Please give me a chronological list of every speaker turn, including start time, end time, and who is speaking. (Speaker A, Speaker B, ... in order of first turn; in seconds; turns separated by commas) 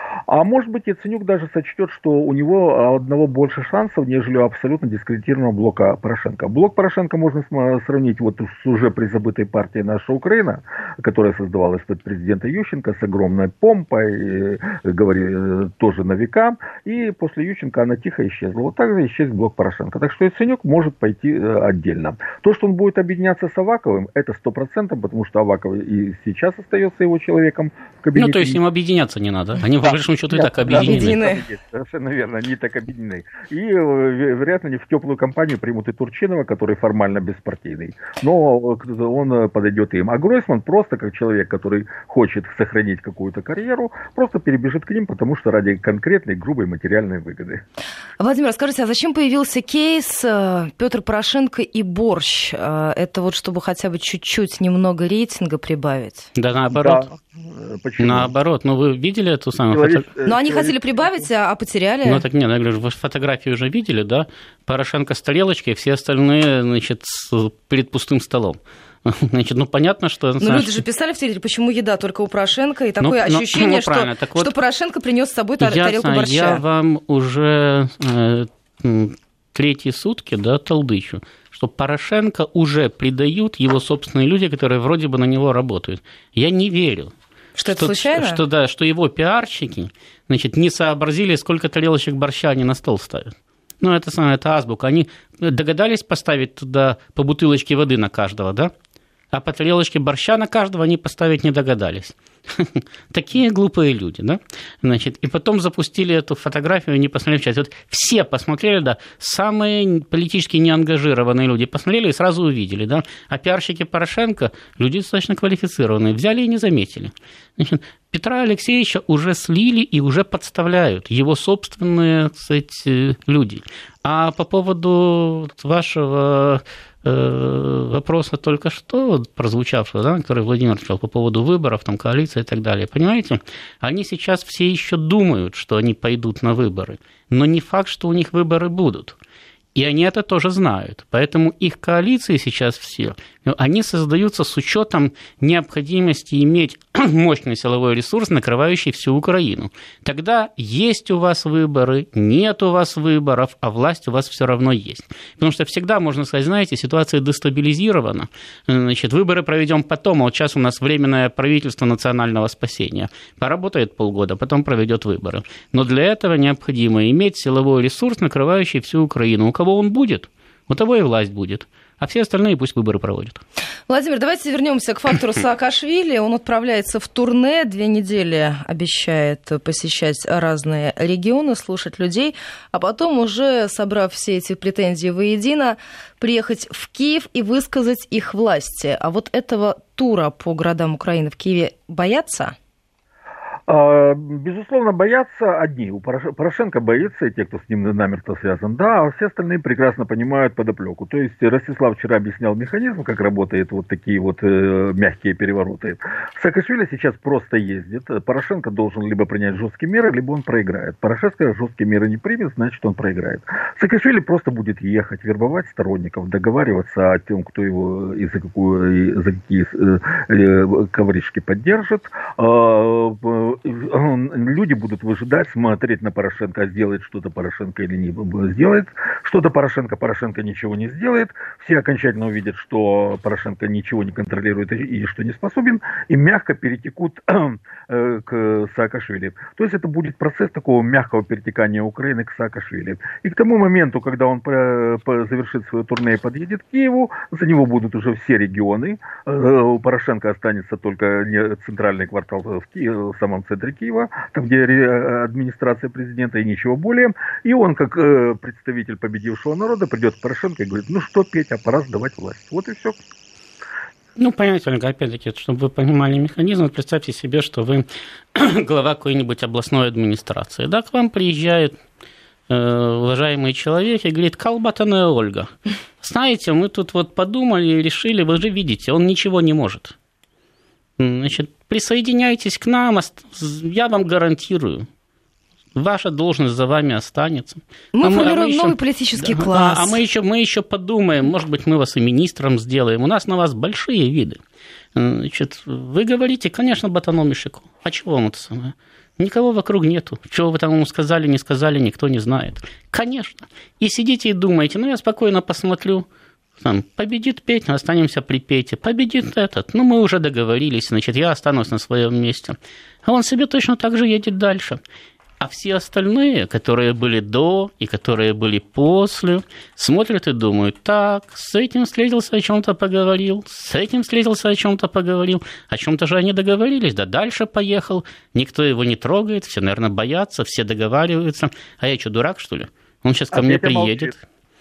Speaker A: 0.3-28.6, Speaker B: 28.1-31.2, Speaker A: 30.4-47.6, Speaker C: 30.6-31.4, Speaker C: 48.2-56.3, Speaker B: 56.4-57.1, Speaker A: 56.7-58.3, Speaker B: 58.0-60.0, Speaker A: 59.7-61.2, Speaker C: 60.3-62.2, Speaker B: 62.1-70.8, Speaker C: 70.4-76.6, Speaker B: 73.0-74.5, Speaker B: 75.6-87.1, Speaker C: 87.6-88.4, Speaker B: 87.7-98.7, Speaker B: 99.3-139.2, Speaker B: 139.8-173.4, Speaker C: 173.9-192.6, Speaker A: 193.7-263.0, Speaker B: 264.2-271.7, Speaker B: 272.5-279.9, Speaker B: 281.0-284.9, Speaker B: 285.8-294.4, Speaker C: 287.9-290.0, Speaker B: 294.9-306.1, Speaker B: 306.6-314.8, Speaker B: 315.4-334.2, Speaker A: 333.3-334.2